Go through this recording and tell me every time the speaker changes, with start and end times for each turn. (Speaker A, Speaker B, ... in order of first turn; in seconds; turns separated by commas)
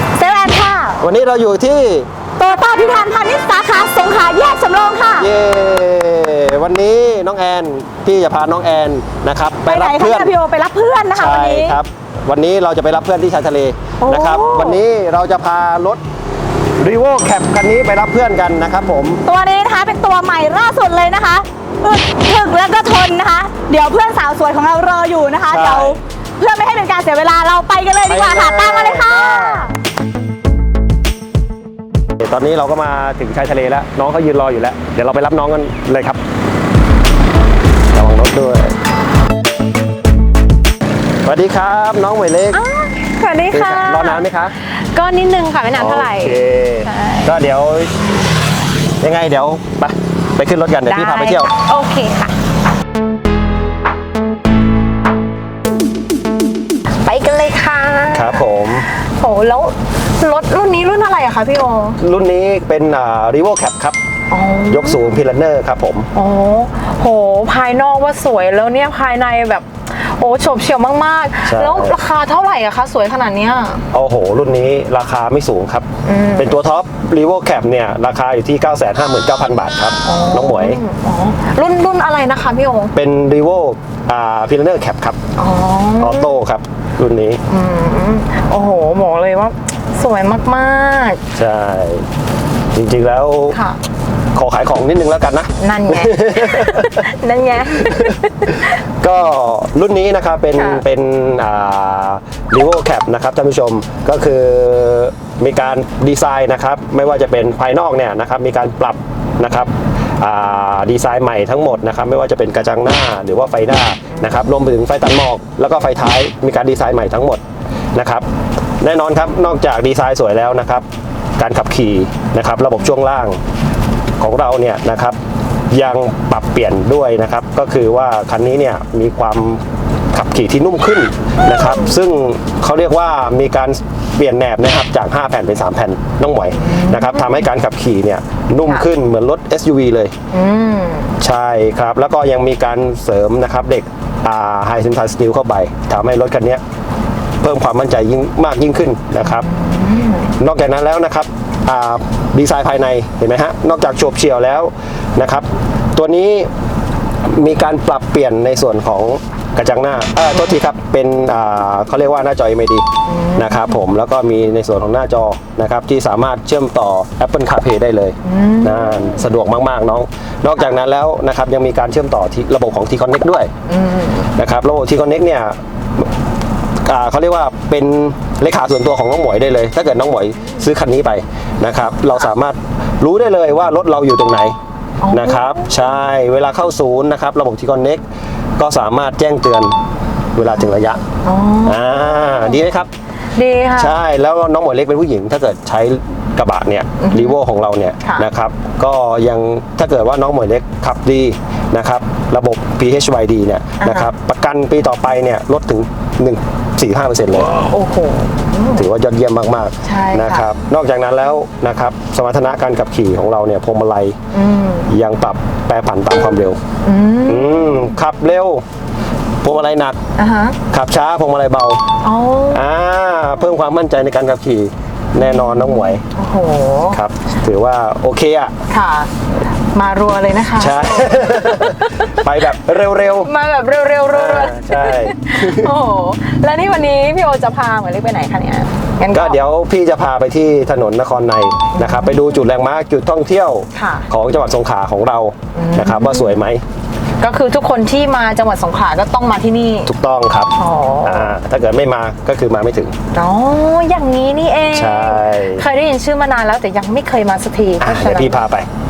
Speaker A: 0.2-1.0, Speaker B: 1.0-2.1, Speaker A: 2.4-5.3, Speaker B: 5.2-10.3, Speaker A: 9.7-11.8, Speaker B: 11.1-16.0, Speaker A: 14.0-14.8, Speaker B: 16.8-19.2, Speaker A: 19.2-29.7, Speaker B: 25.5-26.0, Speaker B: 28.1-29.7, Speaker B: 32.2-36.2, Speaker B: 37.9-38.8, Speaker B: 41.2-42.6, Speaker C: 42.5-47.4, Speaker B: 43.5-44.6, Speaker B: 45.7-47.9, Speaker B: 49.0-51.5, Speaker C: 50.9-52.3, Speaker C: 57.0-62.0, Speaker B: 58.1-58.9, Speaker B: 62.0-64.0, Speaker C: 64.3-65.0, Speaker B: 64.7-66.1, Speaker C: 66.1-73.8, Speaker B: 71.5-72.0, Speaker B: 73.9-80.8, Speaker C: 76.0-76.5, Speaker C: 80.0-82.9, Speaker B: 82.9-85.2, Speaker C: 85.4-86.4, Speaker B: 86.0-87.4, Speaker C: 87.5-91.2, Speaker B: 91.3-92.1, Speaker B: 92.7-93.6, Speaker C: 93.5-93.8, Speaker B: 94.3-97.0, Speaker C: 95.6-98.8, Speaker B: 97.8-117.4, Speaker C: 100.5-100.8, Speaker B: 117.9-118.3, Speaker B: 118.8-120.9, Speaker B: 121.4-123.4, Speaker B: 124.2-125.2, Speaker B: 125.7-140.1, Speaker C: 136.6-137.3, Speaker C: 140.3-141.2, Speaker B: 141.2-146.6, Speaker B: 147.4-149.5, Speaker C: 149.2-150.3, Speaker B: 150.4-156.5, Speaker B: 157.2-162.8, Speaker C: 163.1-163.8, Speaker B: 163.4-173.5, Speaker C: 168.2-169.2, Speaker C: 173.7-174.3, Speaker B: 174.4-176.1, Speaker B: 176.8-184.6, Speaker C: 185.0-185.7, Speaker B: 185.1-188.0, Speaker B: 188.6-189.7, Speaker B: 190.4-191.0, Speaker C: 191.1-192.5, Speaker B: 191.7-192.9, Speaker C: 193.3-193.9, Speaker B: 193.8-207.7, Speaker C: 197.0-197.4, Speaker C: 203.8-204.1, Speaker C: 207.5-208.9, Speaker B: 208.8-214.2, Speaker C: 209.8-210.5, Speaker C: 214.3-214.9, Speaker B: 214.9-216.6, Speaker C: 216.8-217.9, Speaker B: 217.2-218.6, Speaker B: 219.4-220.0, Speaker C: 220.2-220.6, Speaker B: 220.7-221.8, Speaker C: 222.0-222.6, Speaker B: 222.5-226.0, Speaker C: 226.1-227.0, Speaker B: 226.9-228.5, Speaker C: 228.7-229.1, Speaker C: 229.7-232.4, Speaker B: 230.6-233.3, Speaker C: 233.2-239.4, Speaker B: 234.1-235.8, Speaker B: 239.1-246.6, Speaker C: 241.7-242.2, Speaker C: 243.7-244.1, Speaker C: 245.6-246.4, Speaker C: 247.2-249.9, Speaker B: 249.9-252.9, Speaker C: 250.6-251.3, Speaker C: 253.1-258.4, Speaker B: 254.7-255.7, Speaker B: 257.8-258.7